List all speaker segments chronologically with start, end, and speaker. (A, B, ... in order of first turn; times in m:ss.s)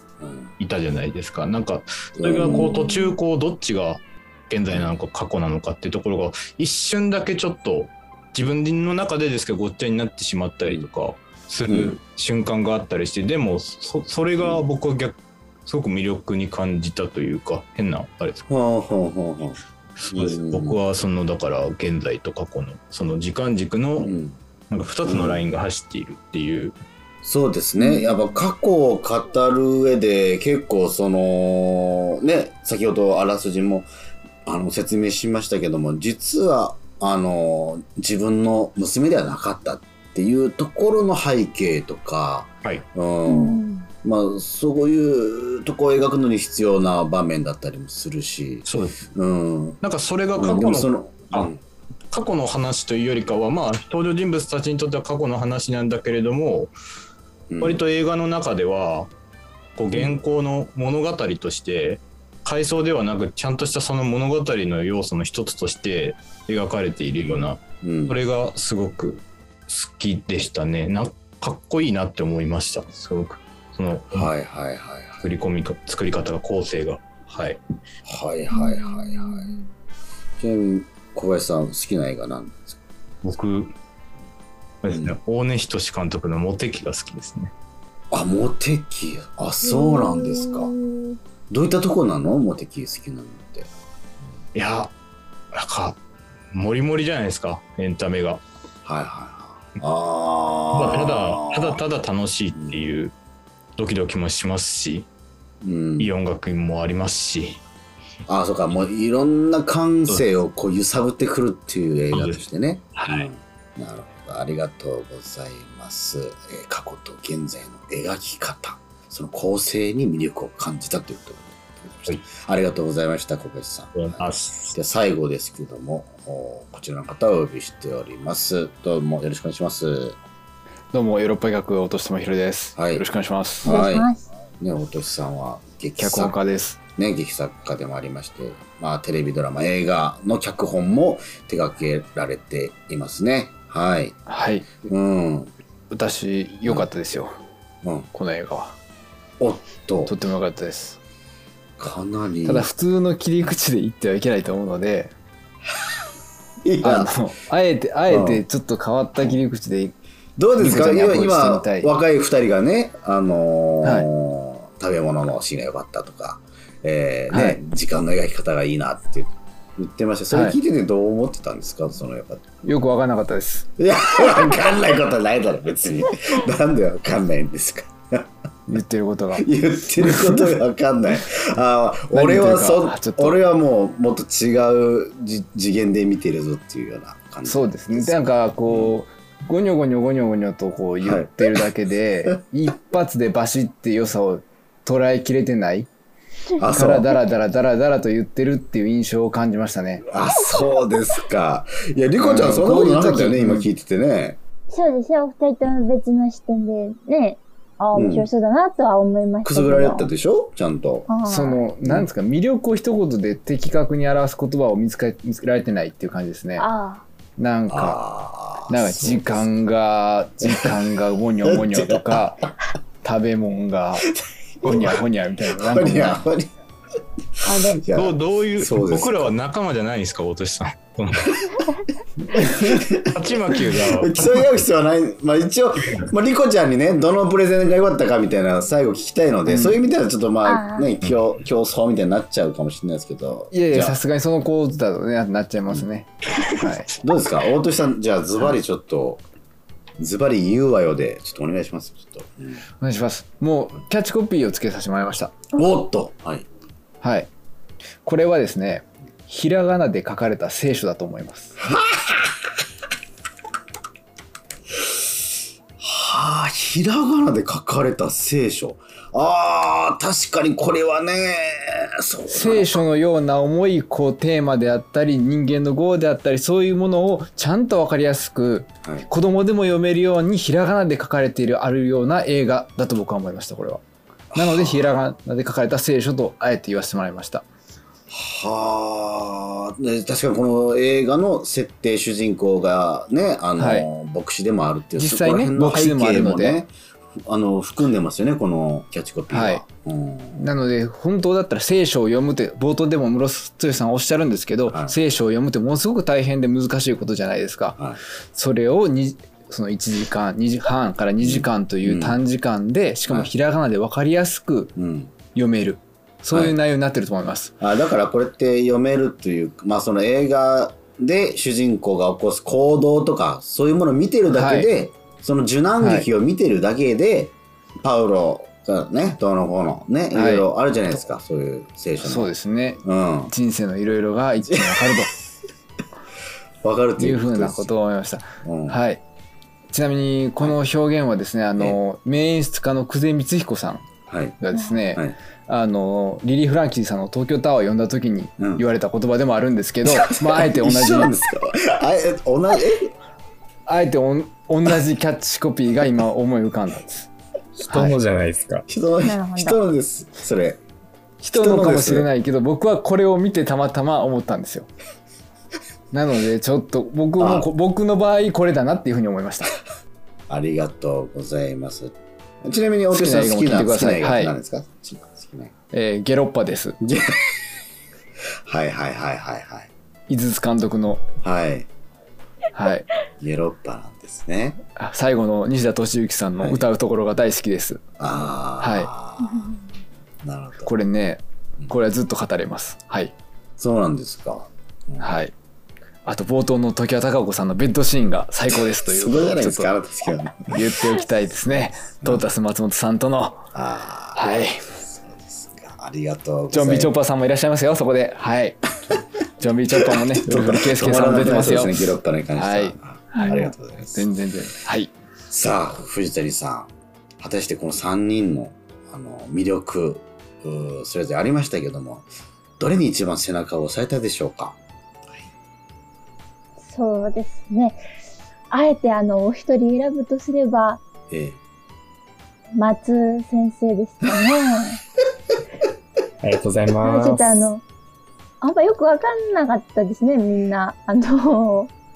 0:00.2-0:00.5 A
0:00.6-0:18.4 B
0:02.2-0:02.7 A
0:02.6-0:03.1 C
0:04.7-0:04.9 A
0:11.7-0:12.0 A
0:14.4-0:14.6 A
0:18.5-0:19.6 A
0:20.0-0:24.1 B
0:20.1-0:20.8 A
0:24.0-0:24.4 A
0:24.7-0:26.8 B
0:25.0-0:25.4 A
0:27.2-0:33.9 A
0:27.8-0:28.3 C
0:34.4-0:49.8 A
0:43.3-0:43.9 C
0:48.6-0:49.0 B
0:49.8-0:51.5 B
0:50.3-0:51.6 A
0:52.1-0:56.7 B
0:57.5-0:57.8 A
0:57.6-0:59.1 B
0:59.8-1:14.3 B
0:59.9-1:00.2 A
1:07.8-1:08.2 A
1:14.1-1:15.2 A
1:15.2-1:17.6 B
1:18.0-1:19.6 A
1:18.5-1:19.6 C
1:20.4-1:22.8 A
1:23.2-1:23.7 B
1:24.8-1:27.5 B
1:24.9-1:25.2 A
1:28.1-1:30.7 A
1:29.6-1:31.2 C
1:31.5-1:33.7 A
1:34.5-1:34.9 B
1:35.5-1:36.0 B
1:36.5-1:38.4 B
1:38.8-1:41.8 A
1:40.7-1:43.1 B
1:42.5-1:42.8 A
1:43.8-1:45.1 B
1:45.6-1:46.1 A
1:46.0-1:47.6 B
1:48.3-2:10.2 A
1:52.1-1:53.3 B
2:03.9-2:04.7 B
2:10.9-2:13.7 D
2:12.8-2:13.0 A
2:13.6-2:14.1 A
2:13.6-2:14.2 C
2:14.6-2:16.4 A
2:16.0-2:16.8 D
2:17.0-2:24.2 A
2:24.2-2:24.8 D
2:24.8-2:25.5 A
2:25.9-2:27.4 D
2:27.8-2:28.1 A
2:28.1-2:28.8 D
2:29.4-2:30.1 A
2:30.1-2:31.0 D
2:31.8-2:32.7 A
2:32.4-2:35.1 D
2:36.6-2:37.1 A
2:36.8-2:40.0 D
2:38.1-2:38.4 A
2:39.1-2:39.4 A
2:40.4-2:52.4 A
2:40.6-2:41.9 D
2:47.3-2:47.6 D
2:50.3-2:50.6 D
2:52.6-2:53.7 D
2:53.8-2:58.2 A
2:58.7-2:59.4 D
2:59.3-3:09.0 A
3:00.0-3:00.4 D
3:02.1-3:03.4 D
3:07.4-3:15.9 D
3:11.0-3:11.6 A
3:16.6-3:17.1 A
3:16.7-3:20.0 D
3:20.1-3:24.4 A
3:22.2-3:23.7 D
3:24.7-3:30.1 C
3:27.9-3:28.3 A
3:29.4-3:31.1 A
3:31.1-3:31.6 C
3:31.2-3:36.7 D
3:36.6-3:37.0 C
3:37.4-3:38.0 D
3:37.7-3:39.5 A
3:38.7-3:42.4 D
3:41.4-3:42.3 A
3:43.0-3:44.1 D
3:44.6-3:46.5 A
3:44.6-3:46.2 D
3:47.4-3:49.3 A
3:47.4-3:47.8 C
3:47.9-3:51.4 B
3:52.2-4:04.0 A
3:53.1-3:54.5 B
3:59.4-3:59.8 D
4:00.4-4:00.9 C
4:03.5-4:06.9 D
4:06.9-4:09.2 A
4:10.0-4:12.6 A
4:12.8-4:15.4 D
4:15.5-4:16.4 A
4:17.0-4:17.3 D
4:18.0-4:21.6 D
4:21.6-4:22.4 A
4:25.8-4:32.8 A
4:32.3-4:47.4 D
4:44.3-4:45.0 A
4:48.1-4:56.7 A
4:53.6-4:53.8 D
4:55.0-4:56.6 D
4:57.2-5:00.4 A
4:59.3-4:59.6 D
5:00.3-5:07.8 D
5:04.7-5:05.0 A
5:08.3-5:14.7 D
5:11.2-5:12.2 A
5:14.8-5:15.1 A
5:15.3-5:17.5 D
5:17.6-5:33.3 A
5:24.3-5:24.7 D
5:25.8-5:26.1 D
5:30.1-5:30.4 D
5:32.0-5:35.1 D
5:36.6-5:37.7 A
5:37.0-5:39.0 D
5:38.4-5:38.8 A
5:39.7-5:43.8 D
5:44.1-5:44.4 A
5:44.4-5:51.1 D
5:48.4-5:48.6 A
5:49.8-5:52.9 A
5:53.6-5:57.1 D
5:57.6-5:58.6 E
5:57.7-5:58.0 D
5:58.7-6:00.6 A
5:59.0-5:59.6 C
6:01.2-6:04.7 D
6:01.3-6:02.1 A
6:05.9-6:09.5 D
6:07.2-6:07.5 A
6:10.3-6:15.5 A
6:12.9-6:14.3 D
6:15.7-6:16.8 D
6:16.8-6:17.3 A
6:18.5-6:19.7 A
6:20.1-6:21.0 D
6:21.2-6:21.7 A
6:22.5-6:22.9 D
6:23.2-6:24.6 A
6:24.8-6:27.8 D
6:26.4-6:26.7 A
6:28.0-6:29.4 A
6:28.6-6:28.9 D
6:29.2-6:29.7 C
6:30.2-6:30.7 A
6:30.6-6:33.1 D
6:33.6-6:35.2 A
6:35.0-6:35.3 D
6:36.0-6:39.7 D
6:38.8-6:40.6 A
6:40.5-6:43.4 D
6:43.5-6:47.0 A
6:44.1-6:44.6 D
6:46.5-6:48.6 D
6:49.4-6:54.9 D
6:50.1-6:54.1 A
6:55.3-7:02.1 A
7:02.6-7:04.6 A
7:06.6-7:07.8 C
7:08.5-7:10.8 C
7:11.1-7:11.4 A
7:12.6-7:14.8 C
7:16.2-7:17.5 E
7:16.8-7:17.6 C
7:18.4-7:21.7 C